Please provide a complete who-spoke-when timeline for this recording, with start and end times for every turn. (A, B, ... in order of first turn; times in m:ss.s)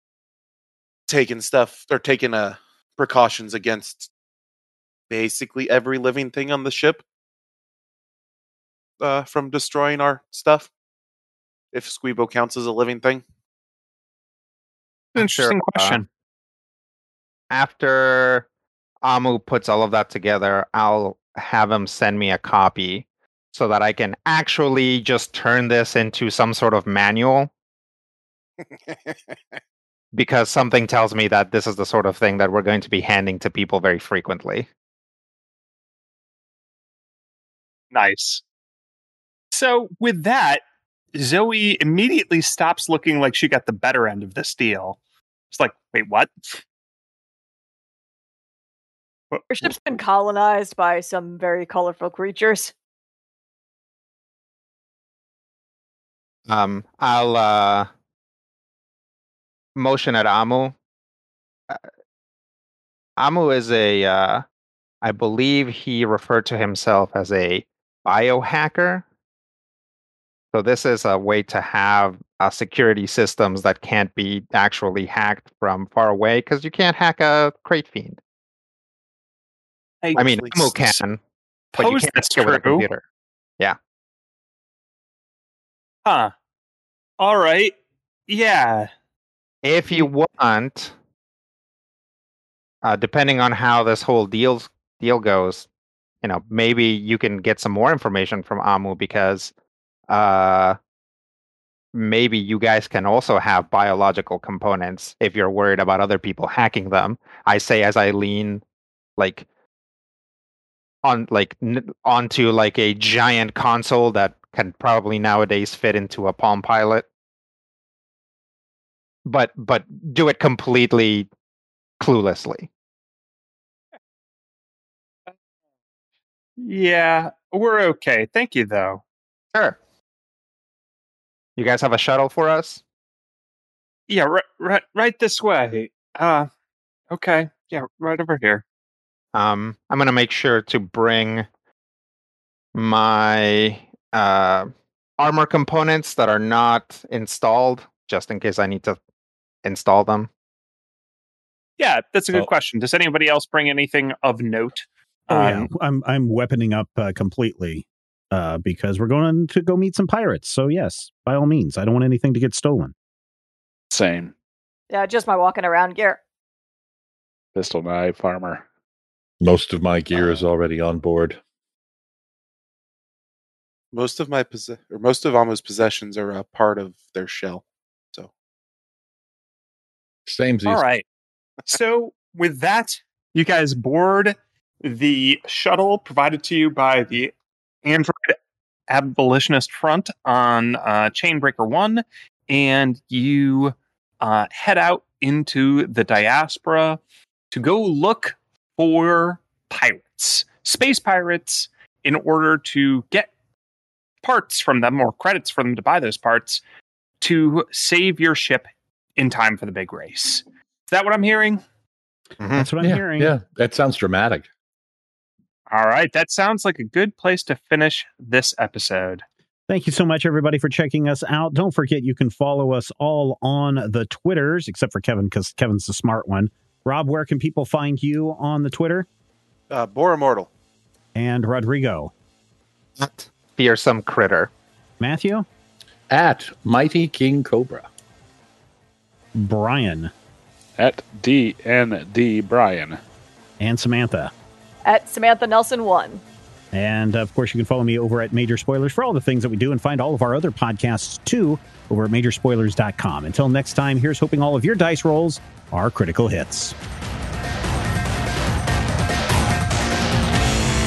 0:01.1-0:04.1 A
0:05.1-0:07.0 A
0:09.0-0:10.7 A
0:11.7-0:13.2 A
0:15.1-0:16.0 B
0:15.1-0:16.0 C
0:17.5-0:18.4 B
0:19.0-0:27.5 B
0:28.6-0:29.6 A
0:30.1-0:34.7 B
0:37.9-0:38.4 C
0:39.5-0:40.6 C
0:41.1-0:45.0 C
0:45.5-0:46.6 C
0:49.3-0:49.7 C
0:49.5-0:52.7 D
0:56.5-0:57.9 B
0:59.8-1:00.7 B
1:03.2-1:04.4 B
1:05.0-1:09.0 B
1:10.5-1:18.2 B
1:20.0-1:20.8 C
1:20.1-1:20.7 A
1:20.1-1:21.2 B
1:21.7-1:22.8 C
1:21.8-1:23.0 B
1:26.0-1:26.3 C
1:27.2-1:27.7 C
1:28.3-1:28.9 C
1:29.6-1:30.9 B
1:32.8-1:35.7 B
1:36.2-1:39.5 B
1:40.1-1:40.8 B
1:41.9-1:48.6 B
1:49.2-1:49.4 B
1:51.0-1:57.0 B
1:59.2-2:01.3 B
2:02.0-2:02.7 B
2:06.6-2:09.0 C
2:11.6-2:12.8 B
2:14.1-2:16.5 C
2:17.1-2:18.6 C
2:19.3-2:21.5 B
2:22.7-2:29.0 B
2:29.6-2:30.3 B
2:31.8-2:35.7 C
2:35.3-2:42.9 E
2:43.9-2:44.3 F
2:44.9-2:46.2 D
2:47.5-2:48.6 F
2:49.4-2:51.4 G
2:50.1-2:50.4 F
2:53.9-2:58.3 A
3:00.2-3:00.8 G
3:00.6-3:01.0 C
3:01.7-3:07.3 C
3:07.8-3:08.4 C
3:08.9-3:17.0 C
3:17.5-3:23.3 C
3:24.2-3:26.6 C
3:27.2-3:31.6 C
3:32.4-3:32.7 B
3:32.5-3:33.3 E
3:32.8-3:34.5 G
3:35.7-3:39.2 C
3:39.7-3:49.0 E
3:49.7-3:50.5 A
3:51.1-3:52.1 E
3:53.0-3:54.5 B
3:55.0-3:55.4 E
3:56.1-3:57.9 G
3:59.3-4:00.1 E
4:00.8-4:03.0 F
4:03.6-4:04.3 E
4:04.8-4:06.2 D
4:06.7-4:16.7 E